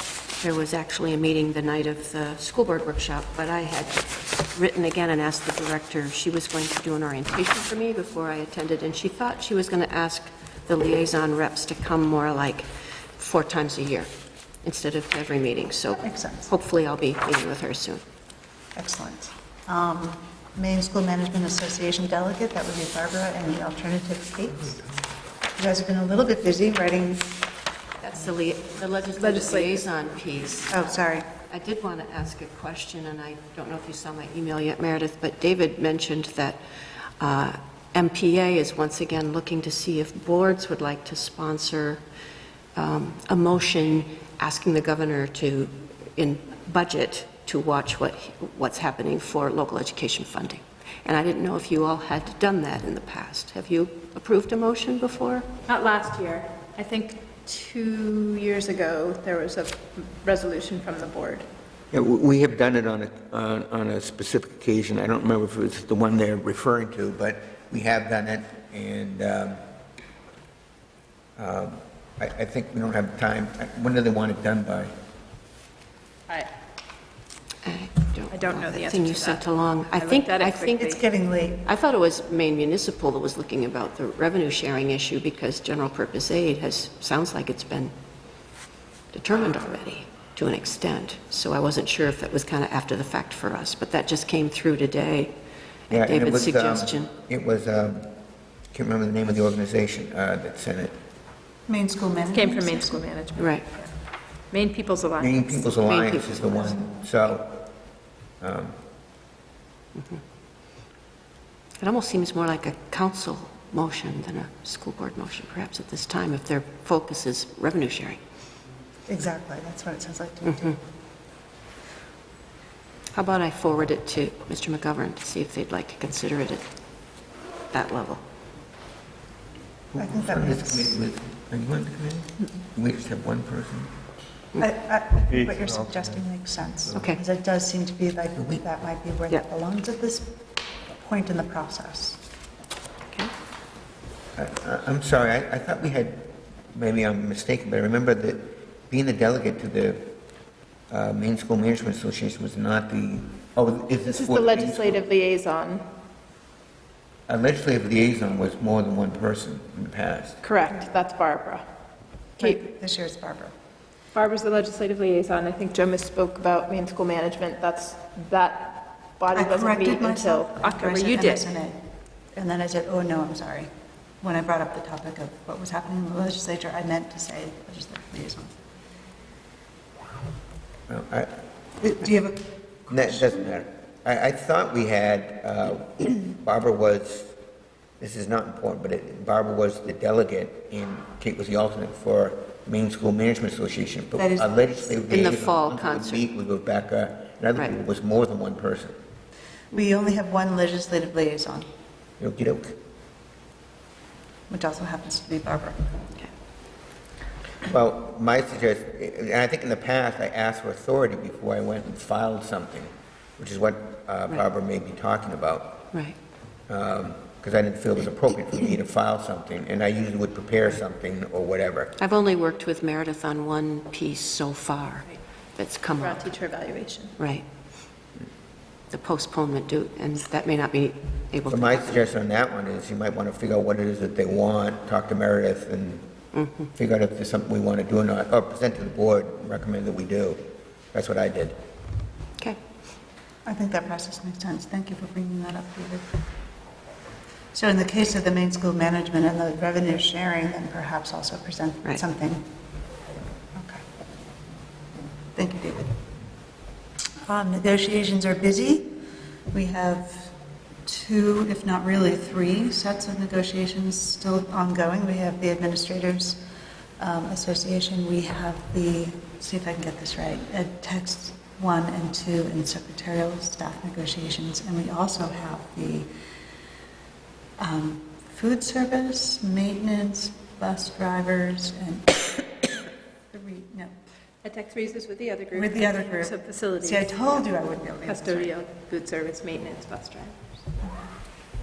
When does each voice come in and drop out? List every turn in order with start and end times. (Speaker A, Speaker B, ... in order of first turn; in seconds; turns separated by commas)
Speaker A: 0.4-14.1, Speaker A: 14.6-18.0, Speaker B: 16.0-16.5, Speaker B: 18.8-24.8, Speaker B: 25.6-27.3, Speaker A: 28.0-30.9, Speaker C: 29.2-29.9, Speaker B: 30.7-31.3, Speaker A: 31.5-36.6, Speaker A: 37.2-42.0, Speaker A: 42.8-55.5, Speaker C: 55.7-61.5, Speaker D: 61.9-69.6, Speaker D: 71.4-74.9, Speaker A: 77.6-80.9, Speaker C: 78.3-79.4, Speaker C: 79.9-81.0, Speaker B: 80.8-81.7, Speaker A: 81.6-87.9, Speaker A: 89.1-95.3, Speaker A: 95.9-97.1, Speaker D: 95.9-98.1, Speaker D: 98.7-101.0, Speaker B: 101.7-103.0, Speaker C: 102.3-103.6, Speaker A: 103.4-103.7, Speaker C: 104.5-105.5, Speaker D: 105.2-107.6, Speaker A: 105.8-106.9, Speaker D: 108.4-108.8, Speaker A: 111.8-118.2, Speaker B: 119.1-120.8, Speaker A: 123.1-126.7, Speaker A: 127.7-128.2, Speaker D: 129.9-133.9, Speaker B: 130.0-130.9, Speaker B: 134.6-140.4, Speaker B: 140.9-142.2, Speaker D: 144.4-150.1, Speaker D: 150.9-155.0, Speaker C: 154.1-155.8, Speaker D: 157.3-160.4, Speaker C: 160.4-161.7, Speaker B: 162.4-163.5, Speaker C: 164.1-171.5, Speaker B: 169.3-171.8, Speaker B: 172.3-173.7, Speaker B: 174.2-178.6, Speaker D: 180.9-181.3, Speaker B: 181.8-183.3, Speaker D: 182.9-187.3, Speaker D: 188.0-198.9, Speaker B: 194.2-195.0, Speaker A: 195.1-196.2, Speaker B: 199.7-201.7, Speaker D: 202.2-202.8, Speaker B: 204.5-205.8, Speaker D: 207.6-215.8, Speaker D: 216.7-221.9, Speaker A: 222.0-226.3, Speaker C: 226.0-227.2, Speaker A: 227.2-227.4, Speaker A: 228.9-232.1, Speaker D: 231.5-236.1, Speaker A: 236.3-236.7, Speaker D: 236.7-241.6, Speaker B: 243.4-246.1, Speaker B: 247.5-252.5, Speaker B: 253.6-253.8, Speaker B: 255.3-256.0, Speaker B: 257.2-259.0, Speaker B: 259.5-260.4, Speaker B: 260.9-266.4, Speaker B: 267.0-276.1, Speaker B: 277.6-282.8, Speaker B: 283.3-283.9, Speaker C: 284.4-287.4, Speaker B: 285.5-288.5, Speaker C: 288.1-290.4